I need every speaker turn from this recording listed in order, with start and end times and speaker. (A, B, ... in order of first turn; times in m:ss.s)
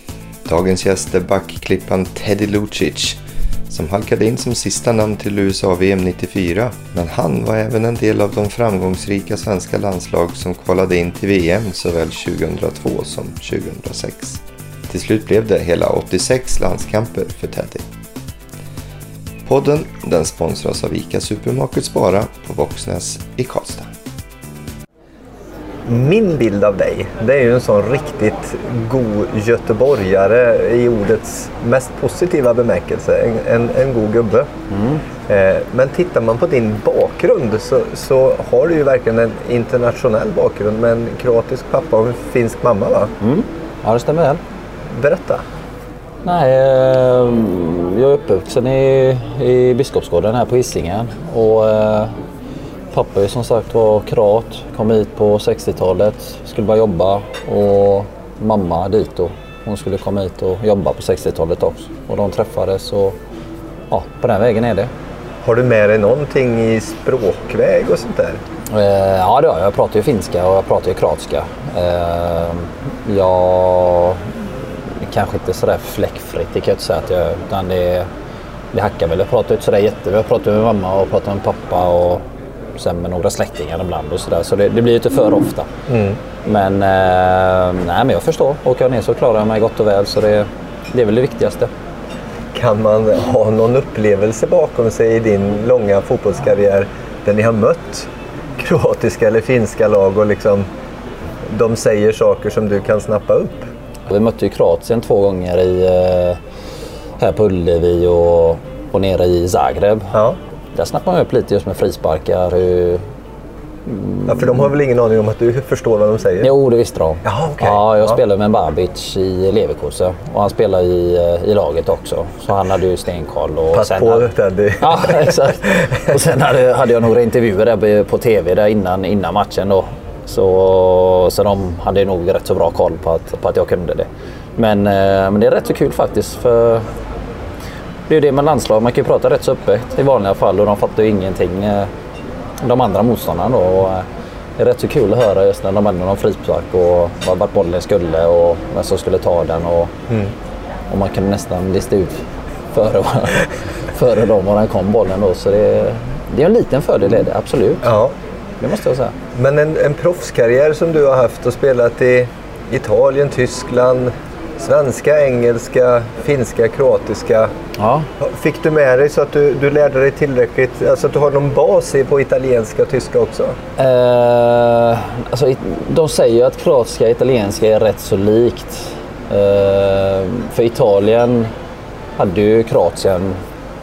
0:00.4-0:17.8 A
0:19.4-0:23.9 A
0:25.8-0:34.5 B
0:34.7-0:35.0 C
0:35.3-0:43.1 B
0:43.2-0:44.4 C
0:44.9-0:45.4 B
0:46.2-0:52.2 C
0:52.9-1:03.2 C
1:03.9-1:04.9 C
1:05.4-1:08.4 B
1:08.7-1:14.3 C
1:14.9-1:18.1 C
1:18.7-1:22.2 C
1:22.8-1:25.7 C
1:25.9-1:26.2 B
1:26.4-1:31.7 C
1:32.5-1:40.7 B
1:41.4-1:43.7 B
1:44.1-1:46.4 C
1:47.2-1:50.1 C
1:50.7-1:53.0 C
1:53.8-1:54.7 C
1:54.3-1:56.5 B
1:56.4-2:04.3 C
1:57.2-1:58.2 B
2:03.7-2:06.0 B
2:04.8-2:16.9 C
2:18.1-2:21.9 C
2:22.6-2:24.0 C
2:24.6-2:29.9 C
2:30.9-2:37.9 C
2:37.8-2:38.1 B
2:38.6-2:39.2 C
2:39.3-2:47.5 B
2:47.8-2:48.1 C
2:48.2-2:53.6 B
2:53.8-3:01.5 C
3:02.2-3:03.4 C